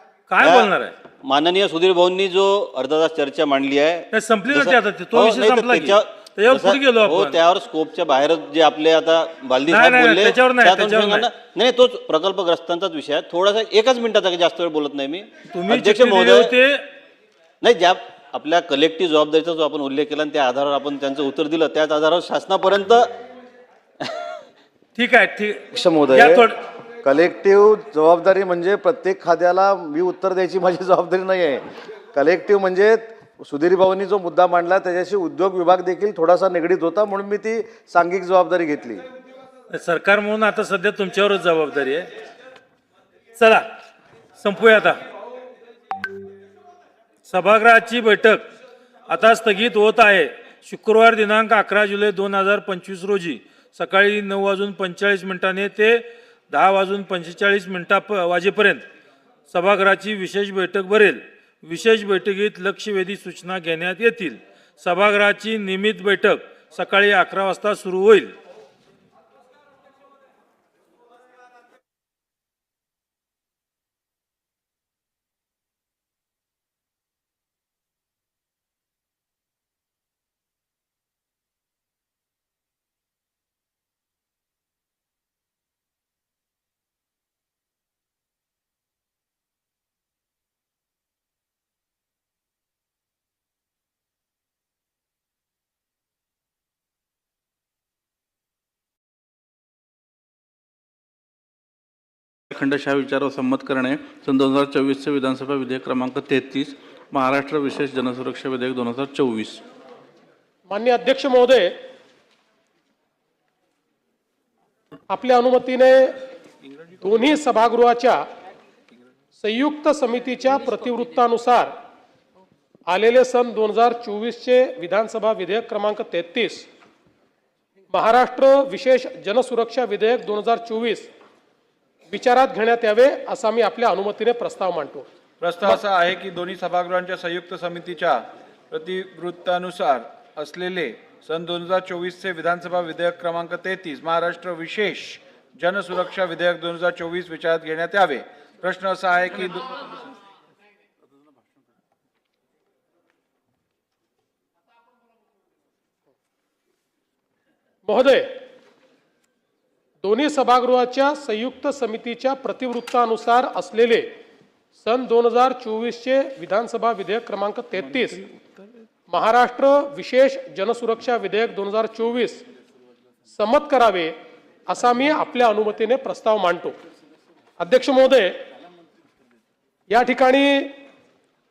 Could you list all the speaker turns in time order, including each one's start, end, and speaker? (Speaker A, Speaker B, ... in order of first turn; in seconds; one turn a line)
Speaker A: 0.3-0.9
Speaker B: 0.4-0.7
Speaker B: 1.2-16.6
Speaker A: 4.1-7.4
Speaker A: 9.7-11.3
Speaker A: 15.5-16.9
Speaker B: 17.6-23.1
Speaker A: 24.9-26.6
Speaker C: 25.7-26.5
Speaker C: 27.0-39.0
Speaker A: 39.7-42.1
Speaker A: 43.4-43.7
Speaker A: 44.4-45.0
Speaker A: 47.3-48.4
Speaker A: 49.1-58.9
Speaker A: 59.5-68.3
Speaker D: 102.5-109.6
Speaker E: 110.7-111.8
Speaker E: 115.1-116.2
Speaker E: 117.0-118.2
Speaker E: 119.4-121.8
Speaker E: 122.9-126.7
Speaker E: 127.9-131.1
Speaker E: 132.1-135.1
Speaker F: 135.4-150.0
Speaker E: 157.9-158.4
Speaker E: 160.0-164.1
Speaker E: 164.8-168.3
Speaker E: 169.1-172.4
Speaker E: 173.3-174.1
Speaker E: 174.7-176.8
Speaker E: 177.6-178.4
Speaker E: 179.9-180.8